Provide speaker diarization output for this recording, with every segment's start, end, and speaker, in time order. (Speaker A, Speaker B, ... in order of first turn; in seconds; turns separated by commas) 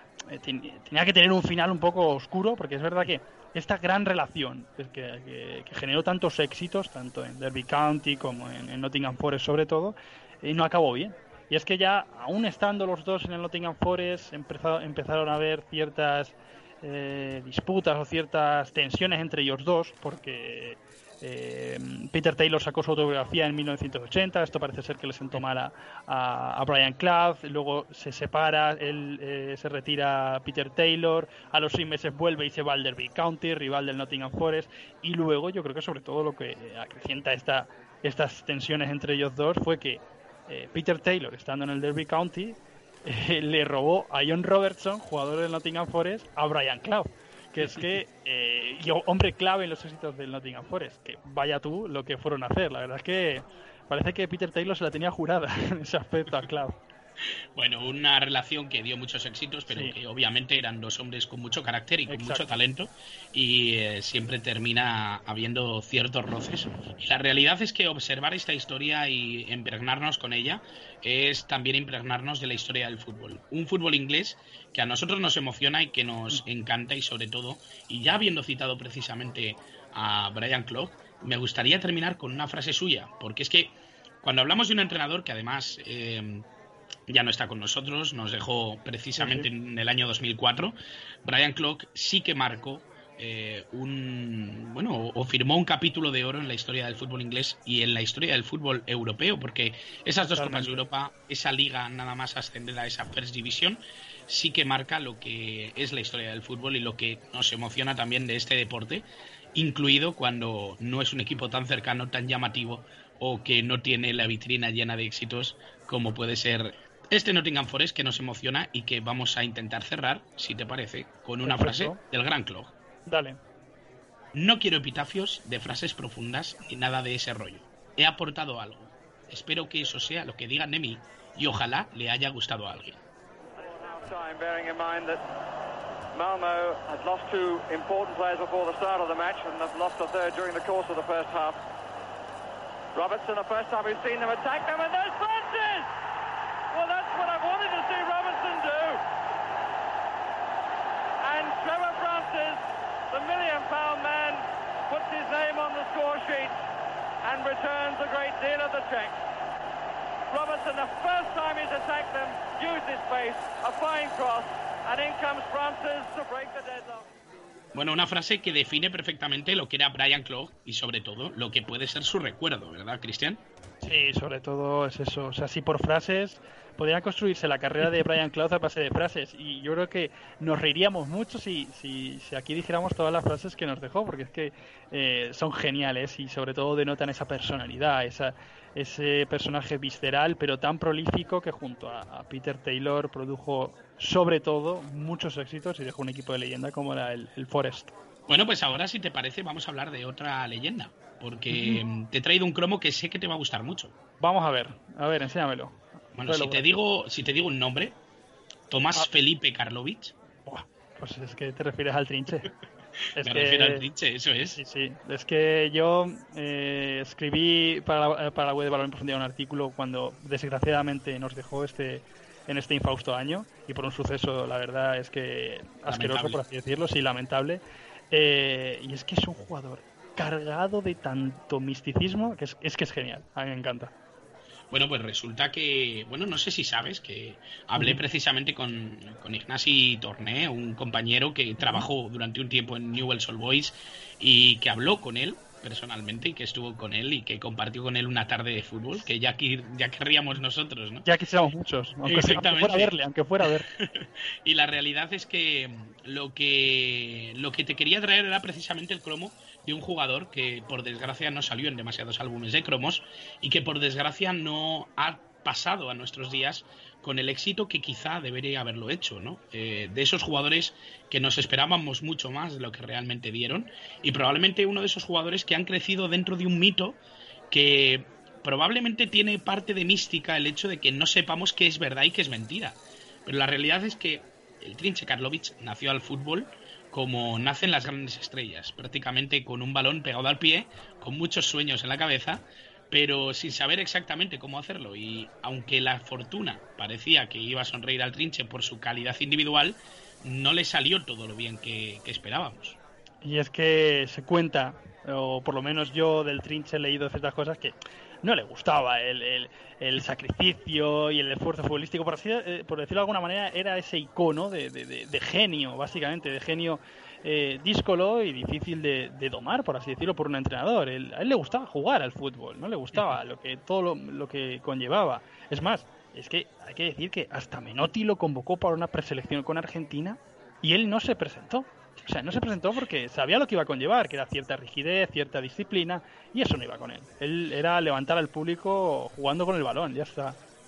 Speaker A: 0.3-56.8, Speaker B: 57.6-86.5, Speaker A: 59.7-60.0, Speaker A: 62.1-62.5, Speaker B: 87.1-122.7, Speaker A: 89.2-89.5, Speaker A: 100.3-100.8, Speaker A: 121.4-122.0, Speaker A: 123.1-123.4, Speaker B: 124.3-133.0, Speaker C: 133.6-135.2, Speaker C: 136.1-141.6, Speaker C: 142.9-145.9, Speaker C: 146.7-149.0, Speaker C: 151.2-156.6, Speaker C: 157.2-159.2, Speaker C: 160.3-167.1, Speaker B: 167.7-173.4, Speaker A: 173.8-197.9, Speaker B: 198.3-203.9, Speaker A: 201.5-201.8, Speaker A: 204.2-206.6, Speaker B: 206.2-208.0, Speaker B: 208.7-210.1, Speaker A: 210.5-212.5, Speaker A: 213.2-213.8, Speaker B: 213.2-214.6, Speaker A: 214.4-227.6, Speaker B: 225.9-226.4, Speaker A: 228.1-233.9, Speaker B: 234.7-251.1, Speaker A: 251.1-253.7, Speaker B: 252.1-277.0, Speaker B: 277.5-302.8, Speaker A: 303.2-340.4